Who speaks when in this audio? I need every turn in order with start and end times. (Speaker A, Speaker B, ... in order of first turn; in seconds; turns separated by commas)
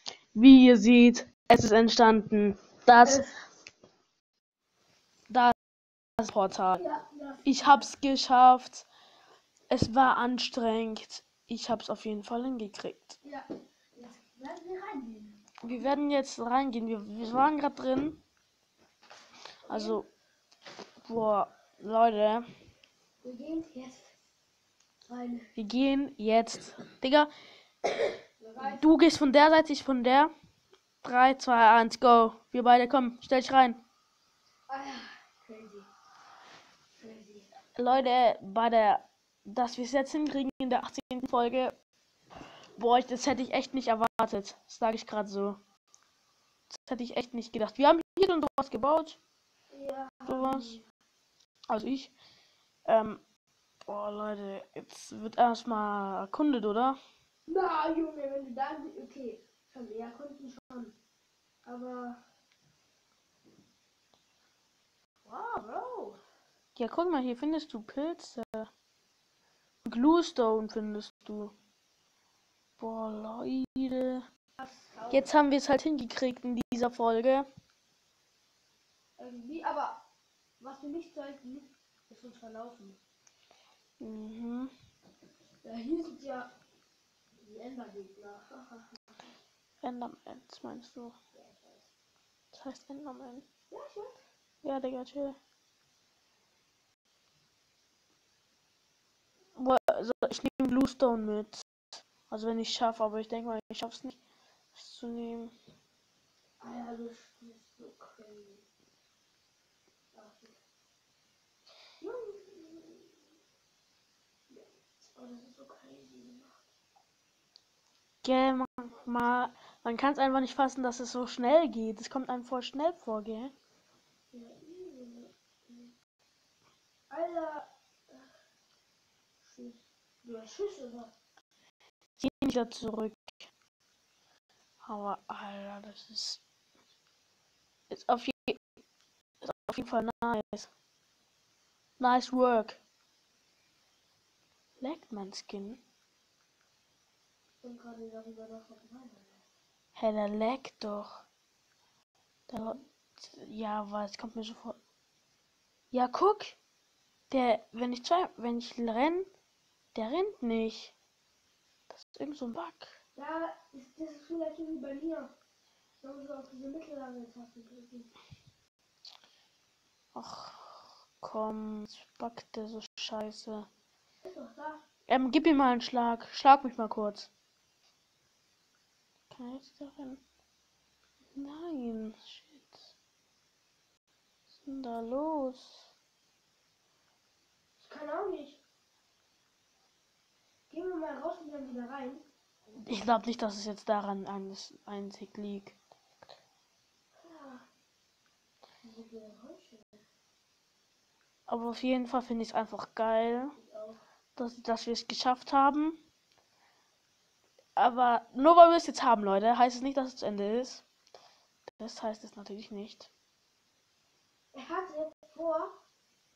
Speaker A: 0.3-3.3, Speaker B: 3.1-3.3, Speaker A: 5.3-5.6, Speaker A: 6.2-6.8, Speaker B: 6.8-7.9, Speaker A: 7.5-8.9, Speaker A: 9.7-13.2, Speaker B: 13.2-15.5, Speaker A: 15.6-18.2, Speaker B: 19.7-20.0, Speaker A: 19.7-20.1, Speaker A: 21.0-22.4, Speaker B: 23.2-24.1, Speaker B: 25.1-25.5, Speaker A: 25.6-27.3, Speaker B: 28.4-28.9, Speaker A: 28.6-30.3, Speaker A: 31.0-33.8, Speaker B: 34.7-35.9, Speaker B: 37.0-37.5, Speaker A: 37.8-41.7, Speaker A: 42.8-45.6, Speaker A: 46.7-49.2, Speaker B: 49.7-50.9, Speaker A: 50.3-50.8, Speaker A: 51.7-52.1, Speaker A: 52.9-53.2, Speaker A: 53.9-57.0, Speaker B: 57.5-61.0, Speaker B: 61.6-62.2, Speaker B: 65.2-66.2, Speaker A: 66.8-68.7, Speaker A: 69.8-71.5, Speaker A: 72.8-74.3, Speaker B: 74.6-75.3, Speaker A: 75.1-77.5, Speaker B: 79.2-80.0, Speaker B: 80.6-83.0, Speaker A: 84.0-84.7, Speaker B: 85.6-86.5, Speaker B: 87.4-89.0, Speaker A: 89.8-91.2, Speaker B: 91.3-91.9, Speaker A: 92.5-93.5, Speaker B: 93.7-94.2, Speaker A: 94.6-95.4, Speaker A: 99.6-101.6, Speaker A: 102.3-104.2, Speaker A: 104.7-105.5, Speaker B: 106.6-108.7, Speaker B: 110.1-110.6, Speaker B: 112.0-113.3, Speaker B: 114.5-116.6, Speaker A: 118.2-123.5, Speaker B: 124.3-125.9, Speaker B: 127.1-128.3, Speaker B: 129.4-131.1, Speaker A: 132.2-133.3, Speaker A: 134.8-136.4, Speaker A: 137.9-138.6, Speaker A: 139.4-140.7, Speaker A: 142.0-142.8, Speaker A: 144.8-145.8, Speaker B: 147.6-149.4, Speaker A: 150.0-151.3, Speaker A: 152.5-154.8, Speaker A: 155.9-156.6, Speaker A: 157.3-159.3, Speaker A: 159.9-160.9, Speaker A: 161.9-163.0, Speaker B: 163.2-165.3, Speaker B: 166.0-168.1, Speaker A: 170.1-173.7, Speaker B: 174.2-174.8, Speaker A: 175.1-177.3, Speaker A: 179.3-180.2, Speaker A: 181.3-182.9, Speaker A: 184.6-185.9, Speaker B: 187.8-188.6, Speaker B: 190.7-192.2, Speaker A: 192.8-195.8, Speaker B: 197.2-197.7, Speaker B: 198.8-200.0, Speaker A: 201.5-203.6, Speaker B: 203.6-204.0, Speaker A: 204.4-206.0, Speaker A: 207.8-210.8, Speaker A: 211.7-213.1, Speaker B: 214.5-215.8